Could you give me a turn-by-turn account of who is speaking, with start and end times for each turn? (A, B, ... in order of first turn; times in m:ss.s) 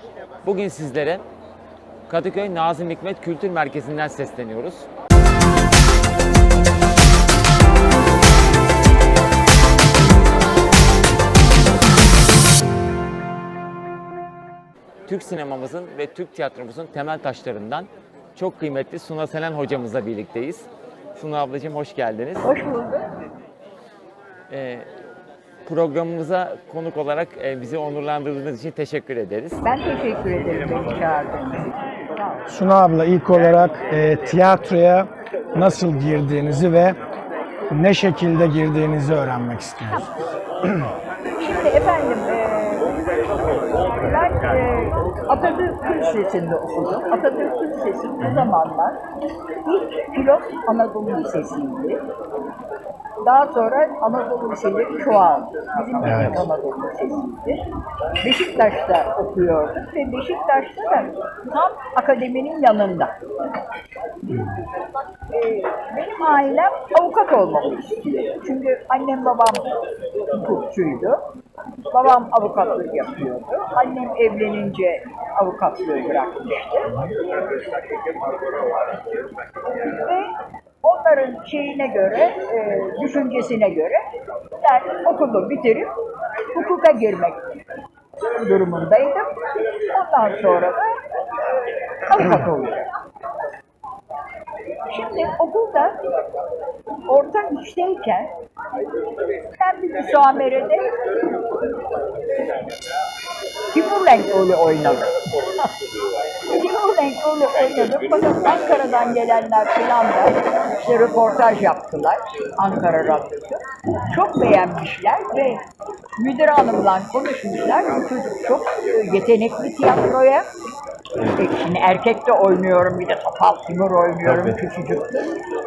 0:00.4-0:01.2 A
0:02.1-0:04.9 A
0:15.0-0:22.5 A
0:22.4-0:23.1 B
0:24.5-0:24.9 A
0:25.6-0:29.6 A
0:29.6-0:32.4 B
0:32.5-0:37.0 C
0:37.7-0:40.9 C
0:41.4-0:43.0 B
0:43.9-0:49.0 B
0:49.6-0:52.0 B
0:53.2-0:57.6 B
0:56.0-0:56.4 C
0:58.2-1:03.1 B
1:05.3-1:09.7 B
1:10.3-1:11.2 B
1:11.9-1:16.9 B
1:19.8-1:24.0 B
1:24.6-1:25.9 B
1:26.5-1:27.5 B
1:28.3-1:29.3 B
1:29.9-1:32.9 B
1:34.9-1:36.0 B
1:37.1-1:38.3 B
1:39.6-1:40.9 B
1:43.7-1:45.6 B
1:46.5-1:55.6 B
1:56.2-2:00.5 B
2:01.3-2:05.4 B